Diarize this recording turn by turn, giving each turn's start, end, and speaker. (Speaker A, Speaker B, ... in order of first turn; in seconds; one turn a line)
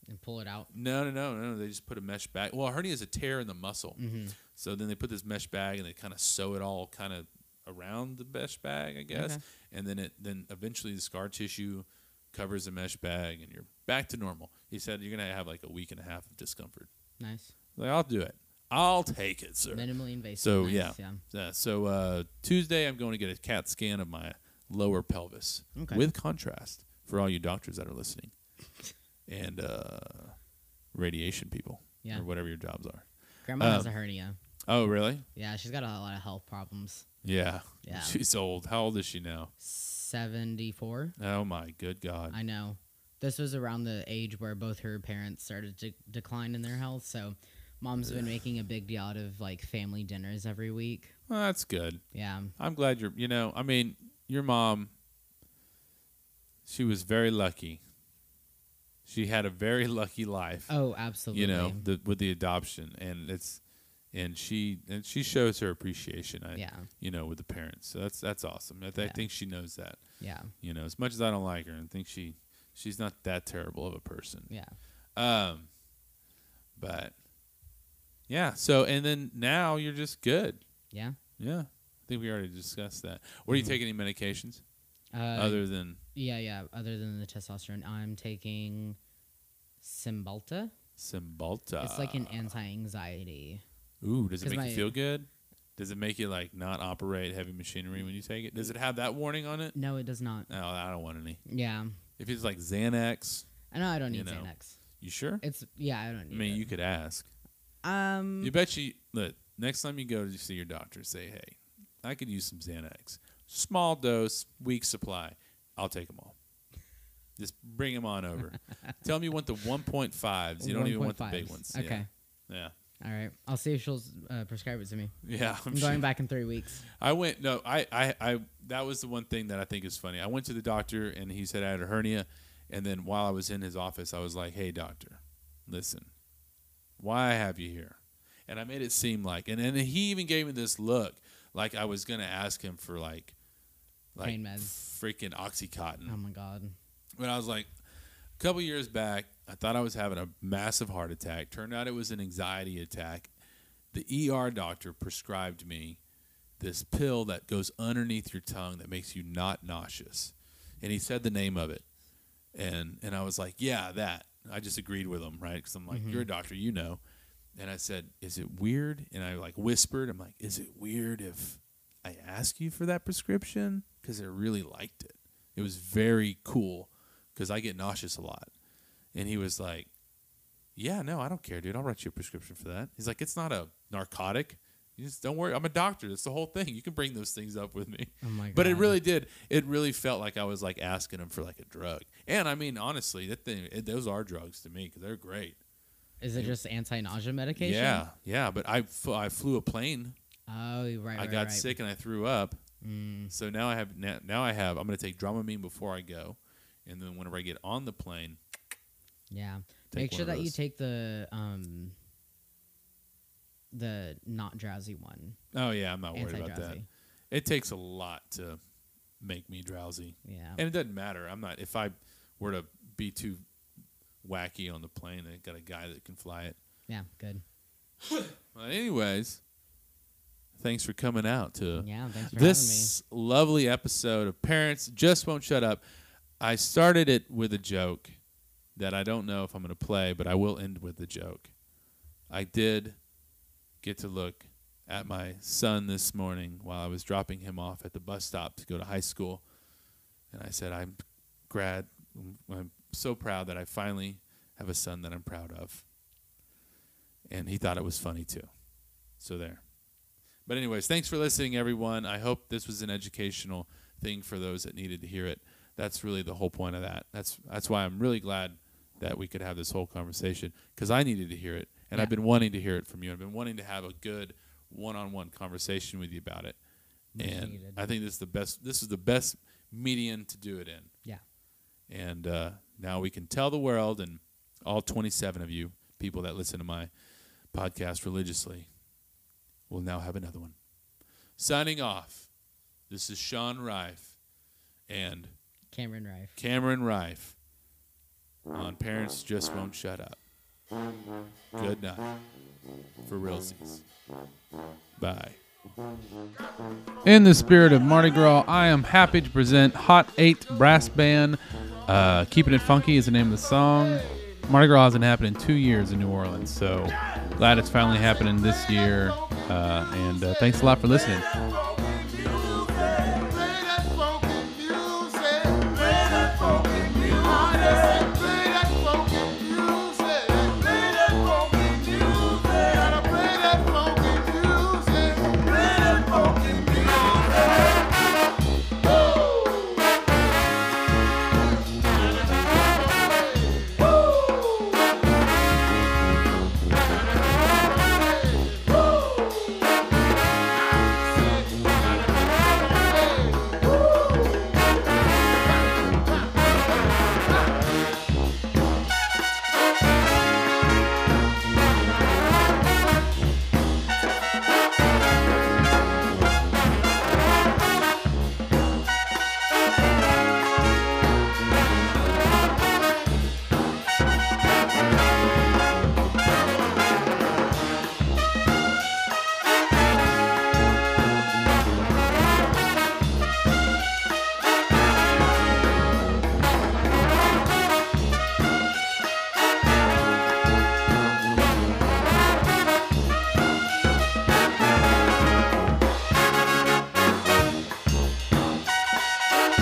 Speaker A: 0.1-0.7
Speaker B: 0.7-16.9
Speaker A: 4.0-4.4
Speaker A: 9.1-9.4
Speaker A: 17.2-17.5
Speaker B: 17.8-19.9
Speaker A: 19.7-21.2
Speaker B: 20.4-28.3
Speaker A: 25.8-26.1
Speaker B: 29.3-30.4
Speaker B: 30.9-33.1
Speaker A: 33.5-34.4
Speaker B: 33.6-33.9
Speaker B: 34.7-35.3
Speaker A: 35.4-37.1
Speaker B: 37.2-39.5
Speaker A: 37.8-38.2
Speaker A: 39.6-41.2
Speaker B: 41.2-42.4
Speaker A: 42.3-51.1
Speaker B: 51.3-52.0
Speaker A: 52.1-52.5
Speaker B: 52.6-54.9
Speaker B: 56.7-57.8
Speaker B: 59.1-60.7
Speaker A: 60.7-61.8
Speaker B: 61.3-63.6
Speaker B: 64.1-70.0
Speaker A: 66.5-66.9
Speaker A: 70.2-70.5
Speaker B: 70.6-74.5
Speaker A: 74.5-74.7
Speaker B: 75.2-75.7
Speaker B: 76.8-77.2
Speaker B: 78.3-80.6
Speaker A: 80.9-81.2
Speaker B: 81.4-84.6
Speaker A: 83.5-83.8
Speaker A: 85.1-89.0
Speaker B: 85.3-86.0
Speaker A: 89.8-90.7
Speaker B: 91.0-92.5
Speaker A: 91.8-93.6
Speaker B: 94.0-99.8
Speaker A: 94.4-94.9
Speaker A: 99.7-100.5
Speaker B: 100.5-101.4
Speaker A: 101.5-102.0
Speaker B: 102.2-103.5
Speaker A: 103.7-104.8
Speaker B: 104.1-104.5
Speaker B: 105.0-105.4
Speaker A: 105.4-106.7
Speaker B: 106.3-107.3
Speaker A: 107.8-108.5
Speaker B: 108.4-116.4
Speaker B: 117.4-122.7
Speaker A: 120.6-122.1
Speaker A: 123.0-125.2
Speaker B: 125.2-126.1
Speaker A: 125.7-126.8
Speaker B: 126.9-136.1
Speaker B: 137.0-143.3
Speaker B: 144.2-146.2
Speaker A: 144.2-144.7
Speaker A: 146.1-146.8
Speaker B: 147.2-147.7
Speaker B: 148.4-153.3
Speaker B: 153.9-156.0
Speaker B: 156.6-161.8
Speaker B: 162.5-167.0
Speaker A: 165.9-166.3
Speaker B: 167.6-178.5
Speaker B: 179.1-179.9
Speaker B: 180.8-195.6
Speaker A: 188.2-189.0
Speaker A: 196.2-198.1
Speaker B: 197.6-200.2
Speaker A: 200.5-201.7
Speaker B: 201.2-202.6
Speaker A: 202.8-203.3
Speaker B: 203.3-208.4
Speaker A: 209.3-212.0
Speaker B: 209.9-210.6
Speaker A: 213.7-215.4
Speaker B: 215.5-216.8
Speaker A: 216.1-216.9
Speaker B: 217.3-218.6
Speaker B: 219.2-223.4
Speaker A: 220.2-220.6
Speaker B: 224.2-226.6
Speaker A: 226.9-227.4
Speaker B: 228.1-229.4
Speaker B: 230.6-235.8
Speaker A: 231.8-232.9
Speaker B: 236.4-238.2
Speaker B: 238.8-241.5
Speaker B: 242.3-243.0
Speaker B: 243.8-249.4
Speaker B: 250.3-255.8
Speaker B: 257.3-258.5
Speaker B: 259.2-259.6
Speaker B: 260.5-276.6
Speaker A: 277.1-277.9
Speaker B: 277.2-280.9
Speaker B: 281.9-286.9
Speaker B: 287.5-288.7
Speaker B: 289.7-290.6
Speaker B: 291.4-292.3
Speaker B: 292.9-294.2
Speaker B: 294.9-295.3
Speaker A: 295.7-296.4
Speaker B: 296.4-297.4
Speaker B: 298.5-300.2
Speaker B: 301.5-302.2
Speaker B: 303.0-303.8
Speaker B: 305.0-305.4
Speaker B: 307.0-321.3
Speaker C: 320.7-337.8
Speaker C: 338.8-340.0
Speaker C: 341.8-343.9
Speaker C: 347.8-348.8
Speaker C: 350.8-353.7